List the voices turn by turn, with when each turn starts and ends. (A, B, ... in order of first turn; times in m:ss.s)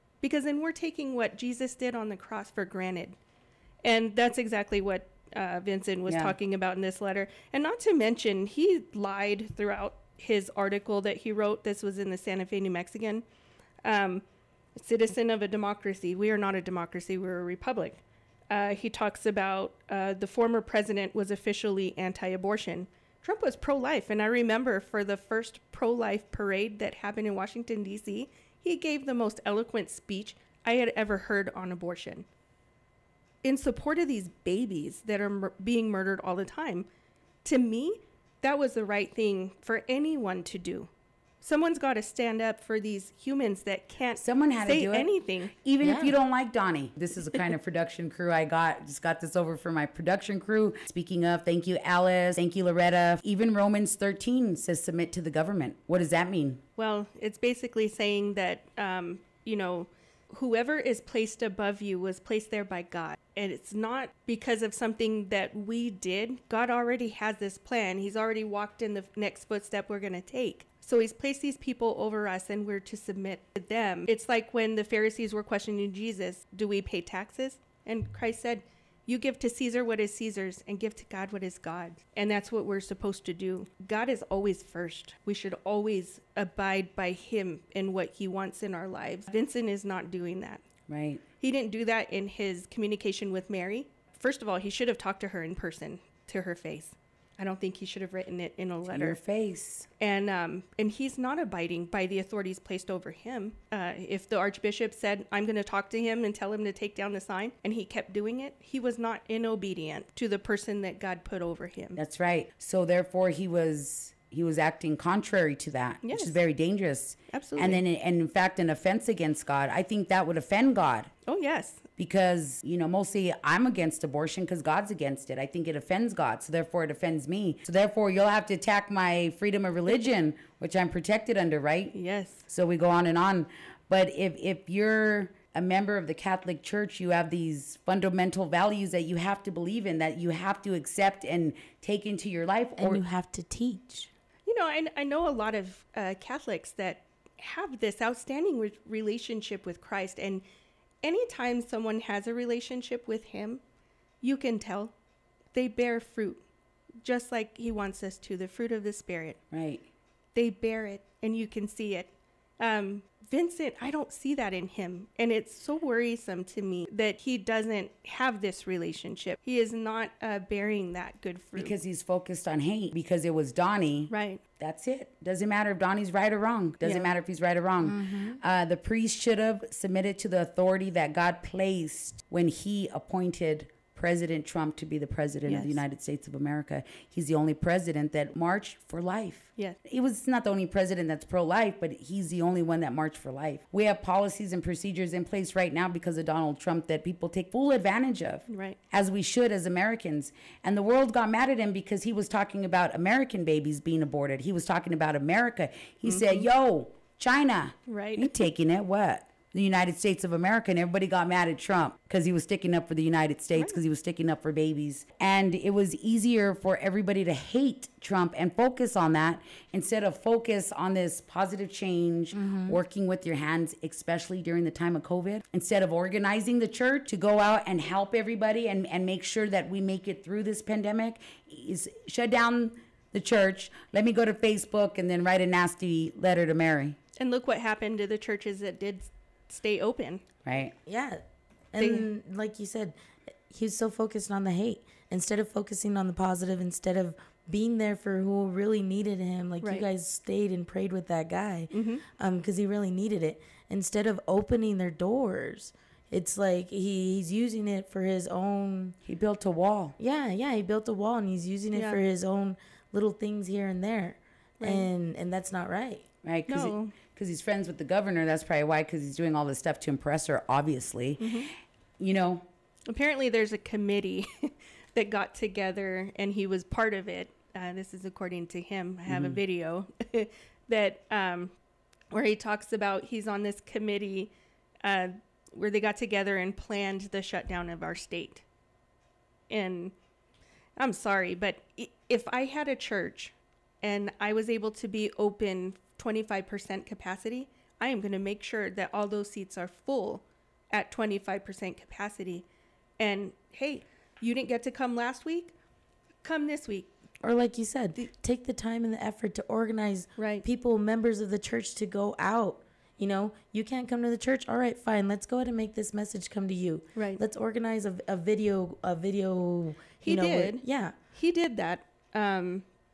0:00.2-0:03.2 A
0:03.8-0:13.2 A
0:06.1-0:06.4 B
0:13.8-0:14.2 A
0:14.8-0:32.2 A
0:33.4-0:36.9 A
0:37.4-0:40.9 A
0:41.4-0:45.5 A
0:44.2-0:45.1 B
0:45.6-0:56.6 B
0:45.8-0:46.1 C
0:56.8-1:30.6 A
1:30.9-1:31.2 B
1:31.4-1:39.2 A
1:38.8-1:39.9 B
1:40.0-1:52.0 A
1:52.0-2:01.1 B
1:56.0-1:56.4 A
1:57.3-1:57.8 A
2:01.2-2:01.8 A
2:02.0-2:12.0 B
2:11.9-2:12.4 A
2:12.5-2:23.0 B
2:22.8-2:24.1 C
2:24.4-2:30.4 A
2:31.0-2:33.6 A
2:34.2-2:34.9 A
2:35.5-2:36.4 A
2:37.0-2:39.4 A
2:39.5-2:39.9 B
2:40.3-2:51.7 A
2:51.5-3:57.0 B
2:54.1-2:54.4 A
2:56.8-2:57.1 A
2:57.8-2:58.4 C
3:05.4-3:05.8 A
3:18.5-3:18.8 A
3:26.0-3:26.5 A
3:27.9-3:28.3 A
3:42.3-3:42.8 C
3:57.2-4:00.2 A
4:00.4-4:00.8 B
4:00.8-4:01.2 C
4:01.7-4:02.9 C
4:01.8-4:02.1 A
4:03.5-4:19.0 C
4:09.6-4:09.8 A
4:11.7-4:12.0 A
4:19.0-4:20.0 B
4:20.0-4:26.0 C
4:21.7-4:22.0 A
4:24.6-4:24.9 A
4:26.2-4:31.4 B
4:26.5-4:27.0 A
4:31.2-4:31.5 A
4:32.0-4:32.4 B
4:32.9-4:41.5 A
4:39.1-4:39.4 B
4:42.1-4:44.3 A
4:44.8-4:48.4 A
4:49.5-4:49.9 A
4:50.8-5:02.4 A
5:03.0-5:05.5 A
5:06.2-5:06.9 A
5:07.2-5:20.9 C
5:10.2-5:10.4 A
5:17.0-5:17.2 A
5:20.0-5:22.6 A